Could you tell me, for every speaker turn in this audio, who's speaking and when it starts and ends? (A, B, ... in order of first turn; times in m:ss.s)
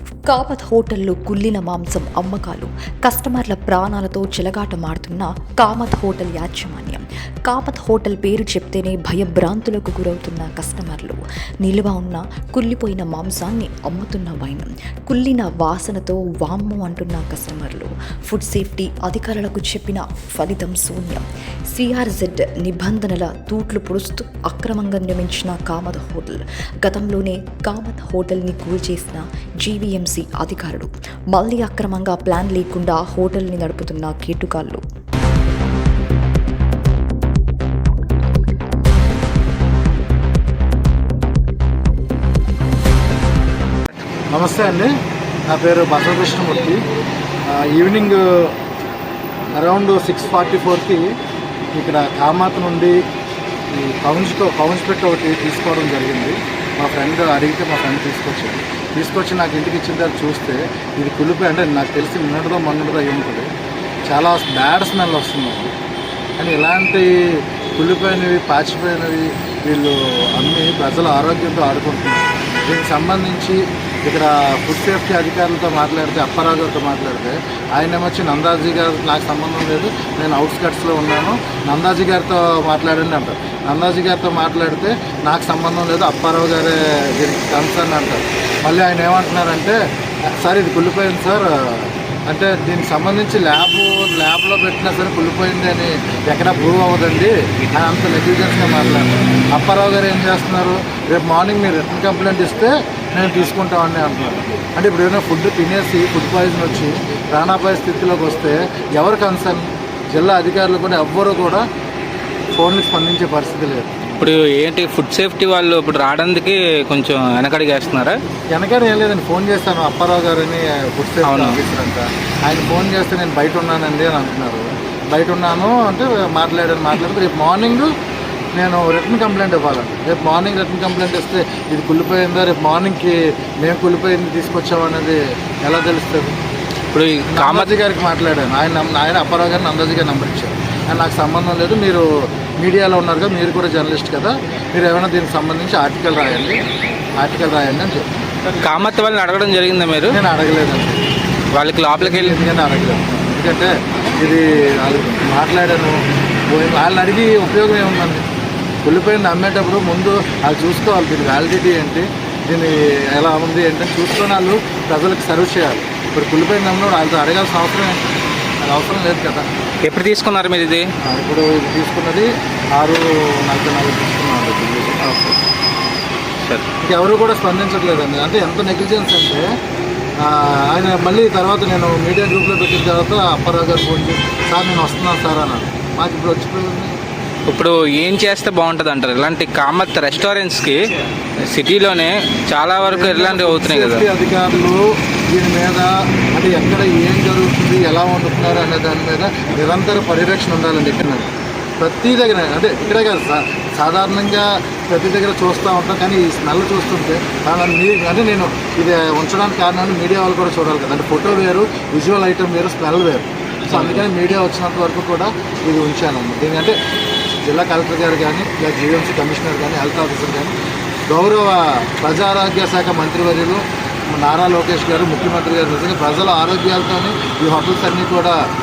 0:00.3-0:34.8 A
0:44.3-0:44.9 B
0:45.5-0:46.8 B
0:47.5-0:48.6 B
0:49.5-0:51.1 B
0:51.7-0:53.0 B
0:53.7-1:03.5 B
1:04.1-1:05.7 B
1:06.4-1:29.8 B
1:30.3-1:51.6 B
1:52.6-1:54.0 B
1:54.2-1:58.2 C
1:58.5-2:07.9 B
2:01.2-2:01.6 C
2:08.6-2:16.4 B
2:16.9-2:17.7 C
2:17.3-2:26.6 B
2:27.2-2:28.2 B
2:28.6-2:30.2 C
2:30.1-2:31.0 B
2:31.6-2:32.4 C
2:32.0-2:36.0 B
2:36.5-2:38.2 B
2:38.8-2:48.1 B
2:48.6-2:49.5 B
2:49.8-2:50.9 C
2:51.0-2:55.1 B
2:55.1-2:55.4 C
2:56.8-2:59.5 B
3:00.2-3:07.0 B
3:07.5-3:10.8 C
3:11.5-3:14.0 C
3:12.8-3:21.3 B
3:21.8-3:36.8 B
3:33.7-3:34.0 C
3:37.4-3:40.6 B
3:41.1-3:48.4 B